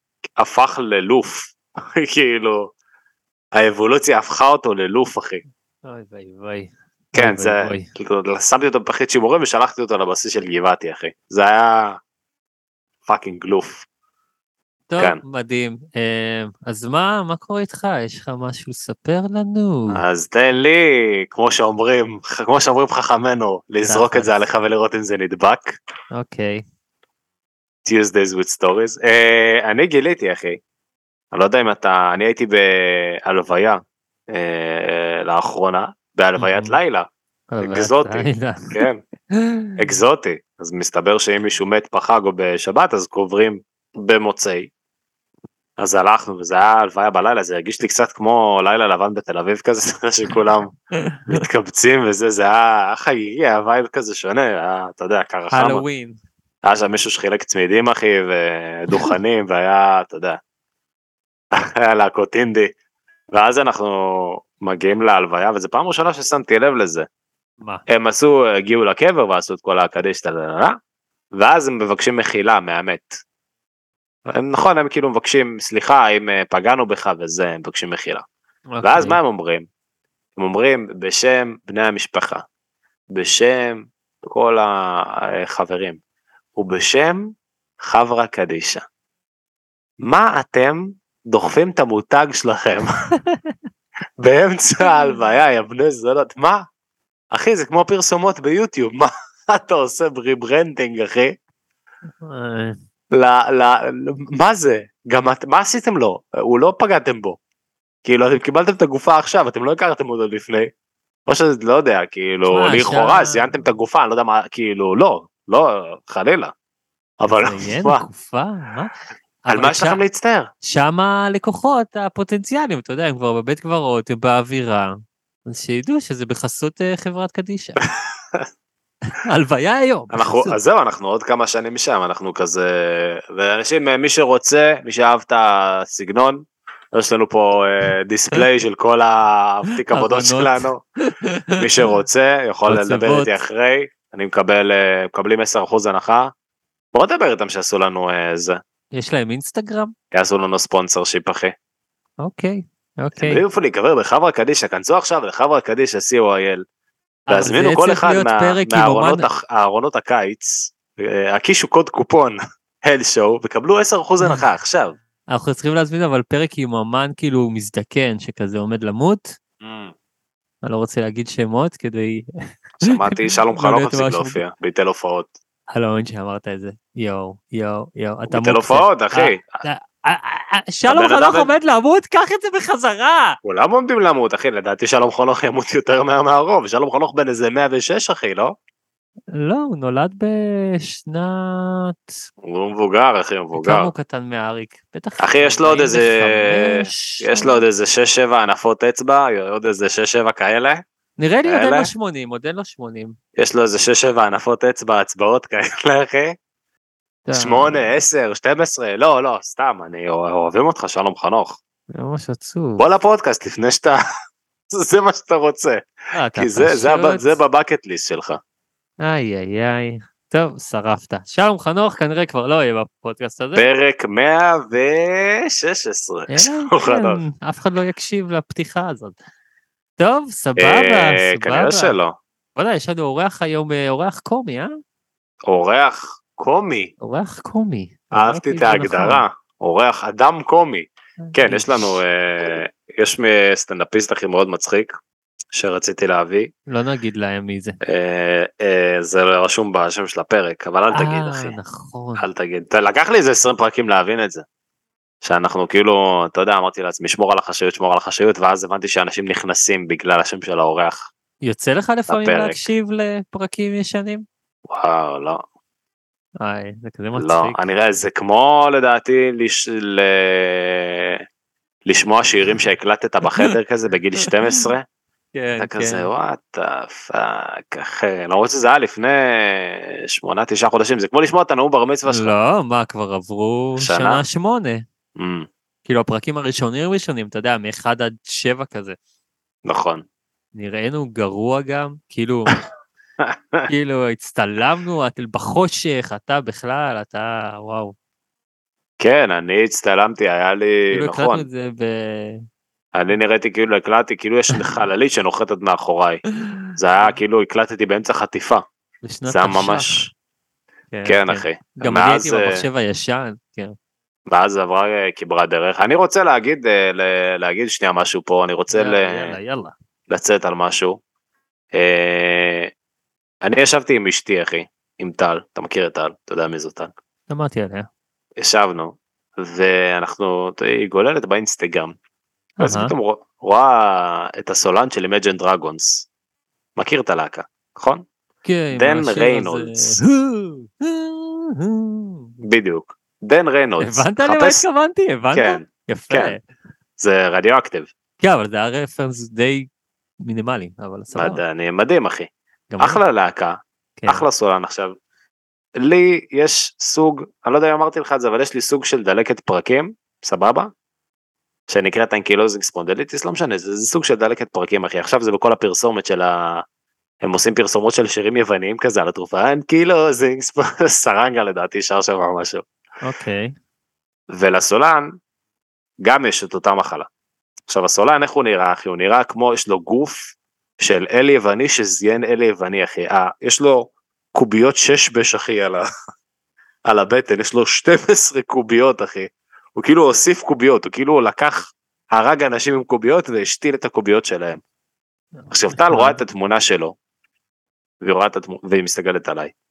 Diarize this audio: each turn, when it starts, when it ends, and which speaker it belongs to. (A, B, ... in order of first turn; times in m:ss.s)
0:00.4-0:02.7 A
0:03.5-0:05.4 A
0:05.8-0:07.9 B
0:07.2-0:12.0 A
0:13.1-0:13.8 A
0:14.9-0:20.0 B
0:19.9-0:25.8 A
0:23.9-0:24.3 B
0:26.1-0:26.6 B
0:27.9-0:30.6 A
0:31.3-0:33.8 A
0:34.3-0:37.1 A
0:36.4-0:36.7 B
0:37.5-0:39.7 B
0:37.6-0:39.0 A
0:39.8-0:44.7 A
0:45.8-0:50.7 A
0:51.0-0:51.4 B
0:51.3-0:55.8 A
0:55.5-0:56.2 B
0:56.6-1:00.4 A
1:01.5-1:02.7 A
1:03.3-1:07.1 A
1:07.9-1:10.7 A
1:11.3-1:13.2 A
1:14.3-1:18.2 A
1:18.7-1:19.2 B
1:18.8-1:19.7 A
1:20.4-1:22.4 A
1:23.1-1:26.0 A
1:26.6-1:27.2 A
1:27.8-1:28.8 A
1:30.0-1:32.9 A
1:34.2-1:36.6 A
1:37.3-1:41.3 A
1:42.2-1:42.8 B
1:43.1-1:47.4 A
1:48.0-1:50.7 A
1:51.3-1:56.5 A
1:52.5-1:53.5 B
1:57.2-1:58.0 A
1:57.3-1:58.9 B
1:59.4-2:00.0 B
1:59.5-2:00.5 A
2:00.6-2:04.9 B
2:05.4-2:07.8 B
2:07.8-2:08.4 A
2:09.1-2:10.5 B
2:10.1-2:20.8 A
2:19.9-2:20.6 B
2:21.2-2:21.9 B
2:21.6-2:26.3 A
2:22.7-2:23.3 B
2:26.9-2:28.6 A
2:28.9-2:29.9 B
2:30.1-2:31.5 A
2:32.2-2:33.4 B
2:33.2-2:36.6 A
2:37.3-2:39.3 B
2:37.3-2:44.9 A
2:45.3-2:49.3 B
2:49.6-2:49.9 A
2:50.6-2:52.3 B
2:52.8-2:55.3 A
2:53.1-2:54.4 B
2:55.7-3:03.4 B
2:58.3-2:59.4 A
3:00.9-3:01.5 A
3:03.4-3:08.5 A
3:09.3-3:12.1 B
3:12.4-3:13.9 A
3:13.5-3:17.6 B
3:15.2-3:20.8 A
3:21.2-3:23.2 B
3:21.4-3:21.9 A
3:23.4-3:26.3 A
3:27.3-3:27.8 B
3:27.4-3:31.6 A
3:31.9-3:32.8 B
3:32.8-3:34.0 A
3:34.7-3:35.8 A
3:36.1-3:37.3 B
3:36.4-3:38.4 A
3:39.0-3:43.6 B
3:43.5-3:47.2 A
3:46.3-3:49.2 B
3:50.0-3:51.9 B
3:50.6-3:52.2 A
3:52.6-3:54.7 B
3:55.5-3:56.9 A
3:57.0-3:59.2 B
3:58.1-4:04.9 A
4:01.3-4:01.8 B
4:05.5-4:06.5 A
4:06.7-4:07.8 B
4:07.8-4:11.6 A
4:11.0-4:12.2 B
4:12.2-4:14.4 A
4:15.2-4:21.1 A
4:21.4-4:24.2 B
4:22.1-4:22.6 A
4:24.7-4:25.4 A
4:26.4-4:27.6 B
4:27.2-4:31.2 A
4:31.9-4:34.8 A
4:35.3-4:36.1 B
4:35.6-4:42.3 A
4:42.1-4:44.8 B
4:43.8-4:44.2 A
4:45.2-4:45.5 A
4:45.9-4:49.0 B
4:49.6-4:50.0 A
4:50.6-4:52.5 B
4:53.2-4:53.7 A
4:53.7-4:57.9 B
4:59.0-5:01.4 A
5:00.9-5:02.4 B
5:02.9-5:06.2 A
5:06.4-5:07.2 B
5:06.8-5:08.6 A
5:09.0-5:10.0 B
5:09.3-5:10.0 A
5:10.9-5:13.7 B
5:11.1-5:12.6 A
5:14.3-5:19.3 A
5:18.7-5:19.7 B
5:20.1-5:21.0 A
5:21.7-5:22.7 A
5:23.4-5:26.9 A
5:27.3-5:27.9 B
5:28.4-5:31.9 A
5:32.6-5:32.9 B
5:32.6-5:36.0 A
5:36.8-5:38.0 A
5:38.4-5:42.3 B
5:38.8-5:40.0 A
5:42.4-5:44.6 A
5:43.8-5:46.4 B
5:45.3-5:46.3 A
5:47.0-5:47.9 A
5:48.2-5:49.7 B
5:50.2-5:51.4 B
5:51.2-5:52.3 A
5:52.7-5:53.0 B
5:52.8-5:54.9 A
5:55.8-6:00.7 A
6:01.7-6:06.6 A
6:07.2-6:12.6 A
6:13.0-6:13.5 B
6:14.3-6:15.1 A
6:16.0-6:17.1 A
6:17.7-6:25.8 A
6:26.9-6:34.6 A
6:35.5-6:36.9 A
6:35.9-6:36.2 B
6:38.0-6:39.5 A